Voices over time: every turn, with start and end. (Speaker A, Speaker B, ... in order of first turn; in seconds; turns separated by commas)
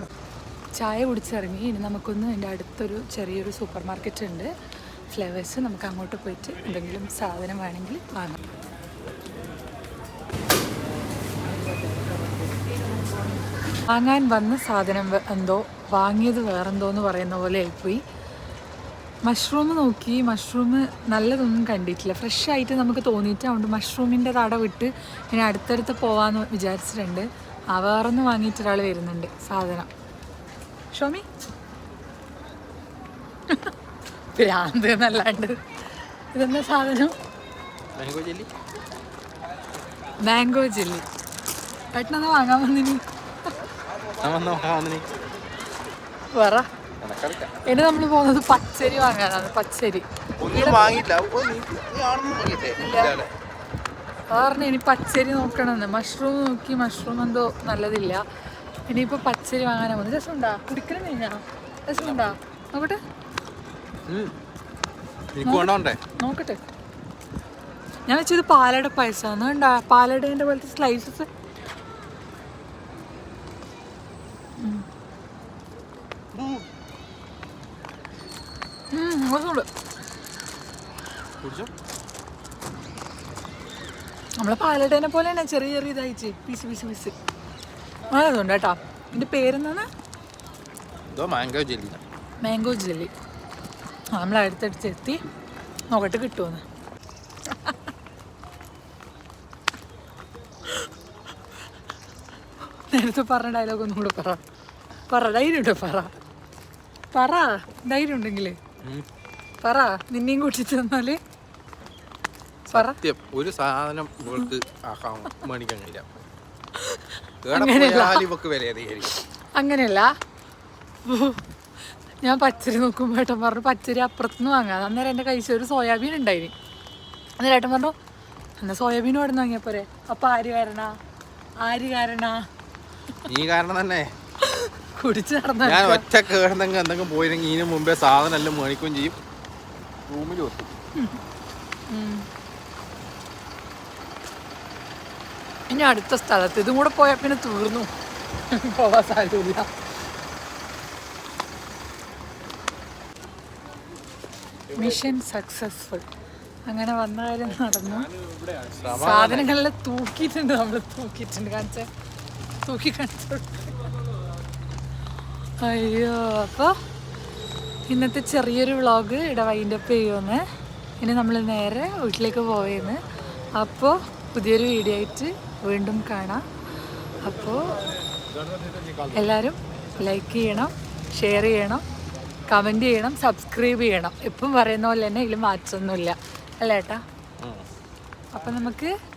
Speaker A: 0.8-4.5, Speaker A: 5.1-8.4, Speaker A: 13.9-18.0, Speaker A: 19.2-29.9, Speaker A: 30.9-31.2, Speaker A: 34.4-35.6, Speaker A: 36.3-37.1, Speaker B: 38.0-38.5, Speaker A: 40.2-41.0, Speaker A: 41.9-43.0, Speaker B: 44.2-45.1, Speaker A: 46.3-46.7, Speaker B: 47.0-47.5, Speaker A: 47.6-50.9, Speaker B: 50.4-53.3, Speaker A: 52.8-53.1, Speaker A: 54.3-58.2, Speaker A: 58.9-63.0, Speaker B: 62.0-62.4, Speaker B: 64.1-64.3, Speaker B: 65.3-66.0, Speaker A: 65.4-66.6, Speaker A: 68.1-71.3, Speaker B: 76.3-76.7, Speaker A: 78.9-79.7, Speaker B: 81.4-81.7, Speaker A: 84.4-87.1, Speaker A: 88.1-89.9, Speaker B: 91.1-92.0, Speaker A: 92.4-93.1, Speaker A: 94.1-95.2, Speaker A: 95.9-96.6, Speaker A: 97.5-97.8, Speaker A: 102.9-104.4, Speaker A: 105.1-106.1, Speaker A: 107.1-108.6, Speaker A: 109.6-111.2, Speaker A: 112.7-113.0, Speaker B: 112.7-116.1, Speaker A: 116.8-118.2, Speaker B: 117.4-119.1, Speaker A: 119.5-120.1, Speaker A: 121.0-121.4, Speaker A: 122.2-126.5, Speaker A: 127.4-128.0, Speaker A: 128.6-131.0, Speaker A: 131.6-132.5, Speaker B: 133.3-134.1, Speaker A: 134.4-136.0, Speaker B: 135.6-139.2, Speaker B: 140.1-140.7, Speaker A: 141.9-142.2, Speaker A: 145.7-147.9, Speaker A: 148.5-149.7, Speaker A: 154.7-156.1, Speaker A: 156.7-158.1, Speaker B: 158.6-159.5, Speaker A: 158.9-161.9, Speaker A: 162.6-163.7, Speaker A: 165.6-166.7, Speaker A: 167.9-170.4, Speaker A: 171.0-173.0, Speaker A: 173.5-176.4, Speaker A: 177.2-177.8, Speaker B: 178.2-179.3, Speaker A: 179.1-181.8, Speaker A: 182.5-187.0, Speaker B: 187.4-187.7, Speaker A: 188.3-188.9